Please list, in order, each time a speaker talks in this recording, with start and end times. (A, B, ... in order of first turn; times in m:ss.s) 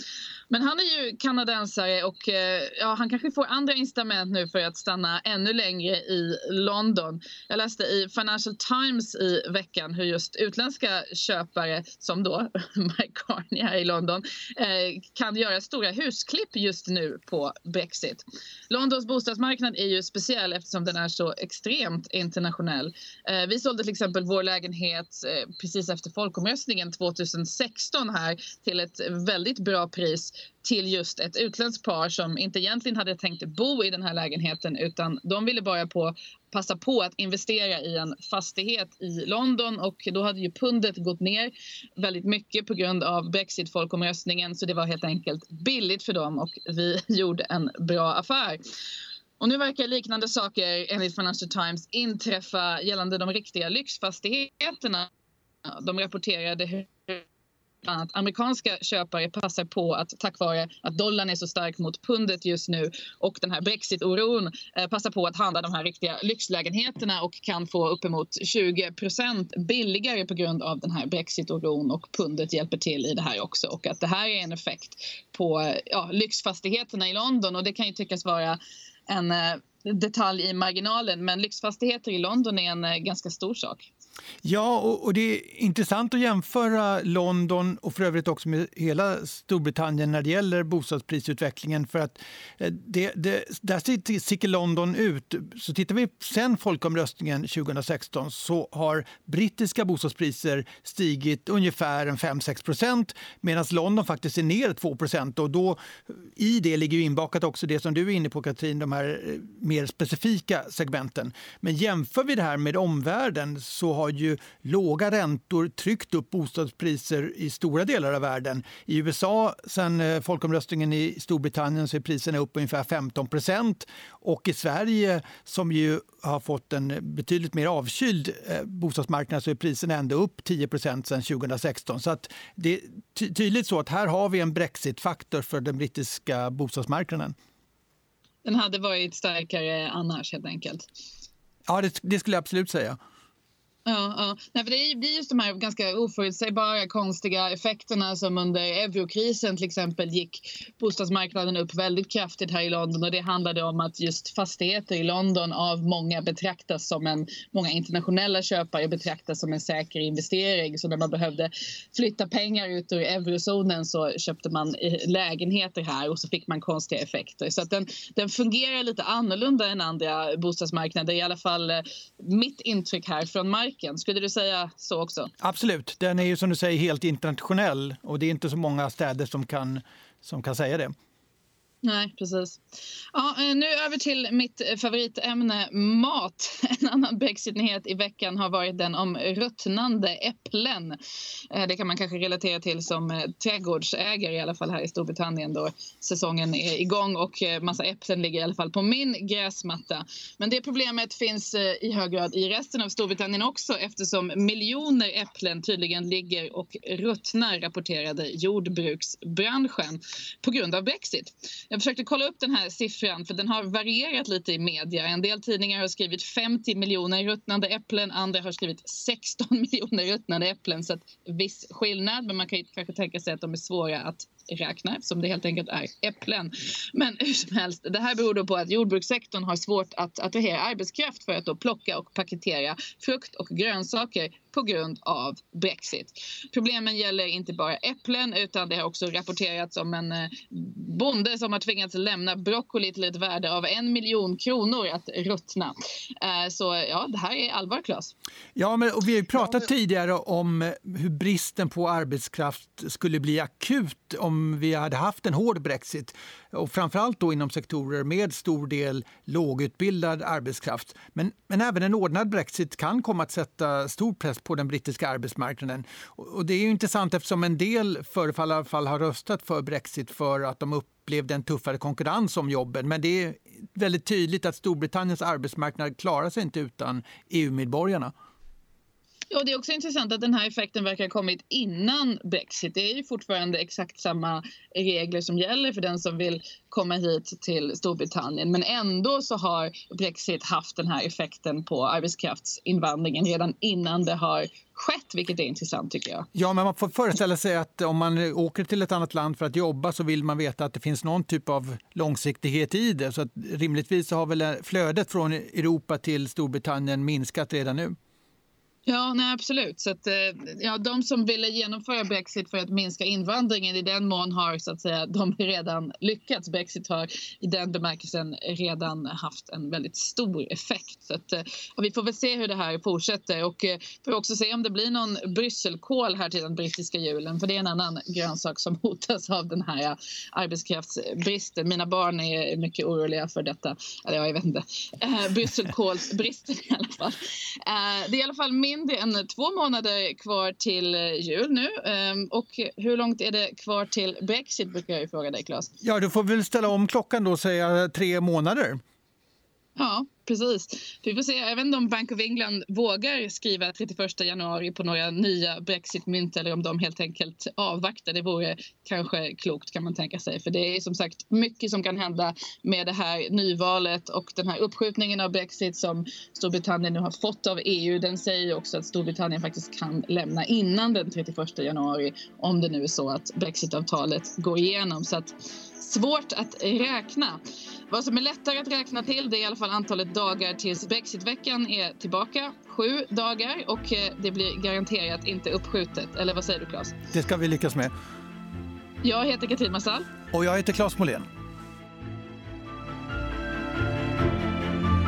0:00.5-0:48.6 A
0:49.4-0:55.1 A
0:55.7-0:57.2 A
0:57.8-1:23.9 A
1:24.4-2:17.3 B
2:18.4-2:20.8 A
2:21.7-2:23.0 B
2:23.9-2:55.3 A
2:55.4-3:00.9 B
3:01.8-3:02.6 A
3:03.1-3:11.0 A
3:11.5-4:08.1 A
4:08.6-4:38.1 B
4:39.3-4:56.3 A
4:56.3-5:08.0 B
5:08.9-5:45.7 A
5:45.8-5:48.8 B
5:49.8-6:27.0 A
6:27.1-6:27.9 B
6:29.0-6:30.1 A
6:30.3-6:31.3 B